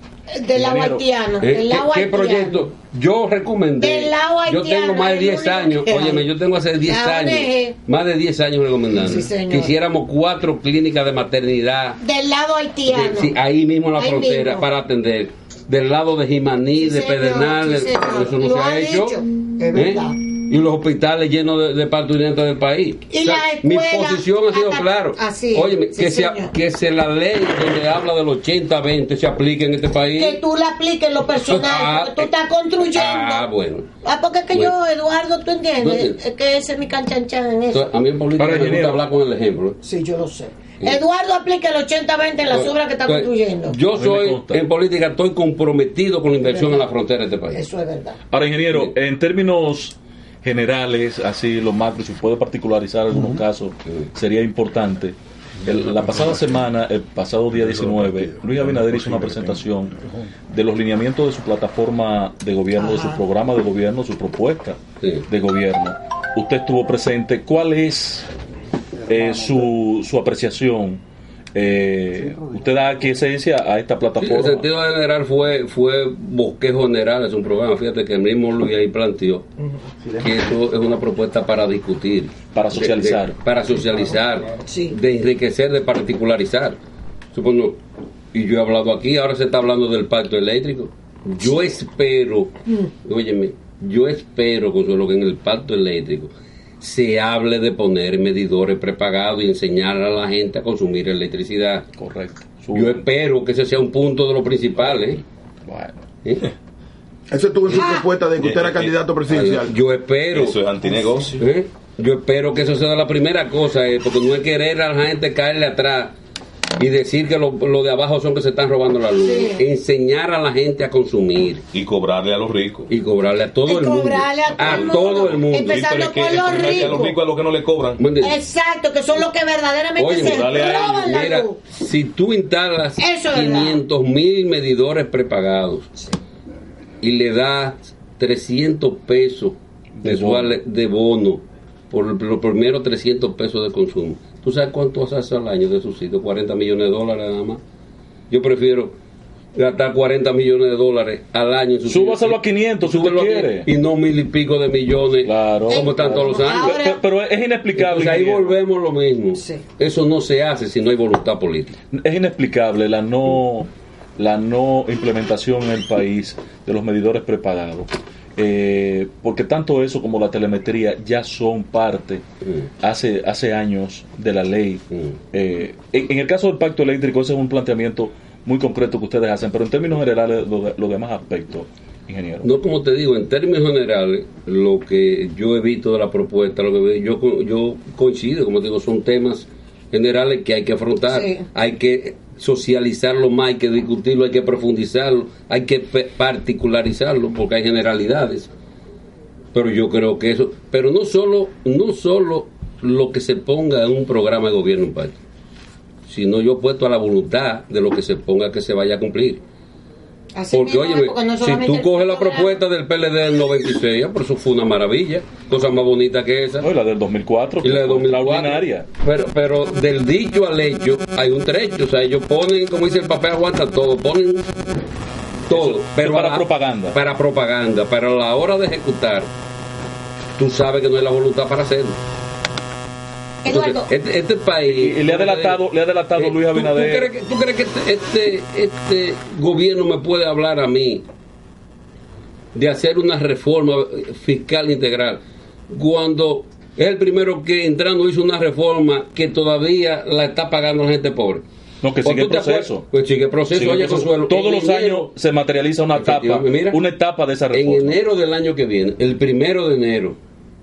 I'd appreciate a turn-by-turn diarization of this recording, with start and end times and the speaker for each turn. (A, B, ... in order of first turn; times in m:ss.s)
0:00.3-0:02.6 A
0:00.5-0:01.0 B
0:01.4-0:12.0 C
0:03.8-0:06.2 A
0:06.8-0:07.8 A
0:09.0-0:09.7 A
0:12.0-0:13.3 A
0:12.9-0:19.2 C
0:14.0-0:14.7 A
0:16.8-0:20.2 A
0:19.7-0:30.4 C
0:23.1-0:26.5 A
0:30.2-0:33.5 A
0:31.4-0:32.3 C
0:32.9-0:33.9 C
0:34.0-0:37.9 A
0:35.8-0:36.2 C
0:37.7-0:39.8 C
0:38.4-0:39.0 B
0:39.8-0:43.8 A
0:42.5-0:47.6 C
0:43.9-0:44.6 B
0:46.4-0:46.9 A
0:47.5-0:48.2 A
0:48.3-1:08.3 B
1:02.8-1:03.2 A
1:09.1-1:11.0 B
1:11.5-1:14.7 B
1:14.2-1:19.5 C
1:19.6-1:19.8 A
1:20.2-1:26.8 C
1:22.5-1:23.4 B
1:24.7-1:25.0 A
1:27.3-1:27.8 C
1:28.3-1:41.9 C
1:42.0-1:43.0 B
1:42.7-1:45.2 C
1:45.6-1:46.0 B
1:47.3-1:49.7 D
1:47.7-1:48.1 A
1:48.4-1:48.9 E
1:49.3-1:50.6 C
1:50.3-1:51.4 E
1:51.4-1:56.1 C
1:56.8-2:01.6 C
1:59.2-1:59.6 A
2:01.7-2:02.9 E
2:02.9-2:07.0 C
2:03.7-2:07.2 A
2:04.6-2:08.0 E
2:08.0-2:08.4 C
2:08.2-2:11.6 A
2:10.0-2:15.9 C
2:10.1-2:11.1 E
2:13.0-2:13.8 A
2:17.0-2:27.6 C
2:20.0-2:20.6 B
2:28.3-2:28.9 C
2:29.5-2:36.9 C
2:31.9-2:33.7 B
2:35.2-2:38.6 B
2:35.7-2:37.0 A
2:37.7-2:41.8 C
2:39.4-2:39.6 A
2:41.9-2:52.2 B
2:52.8-3:02.5 B
3:02.4-3:18.5 C
3:11.1-3:11.4 A
3:19.5-3:25.2 C
3:26.1-3:29.4 C
3:30.3-3:32.6 A
3:30.5-3:36.7 C
3:36.6-3:38.9 B
3:37.6-3:44.4 C
3:45.5-3:47.0 B
3:45.5-3:49.3 C
3:50.4-3:52.0 C
3:53.4-3:53.9 A
3:53.5-3:55.6 C
3:54.6-3:57.1 B
3:56.1-4:01.0 C
4:02.5-4:11.4 C
4:11.8-4:12.8 B
4:12.0-4:15.1 C
4:13.5-4:18.0 B
4:15.9-4:16.8 C
4:17.5-4:20.2 C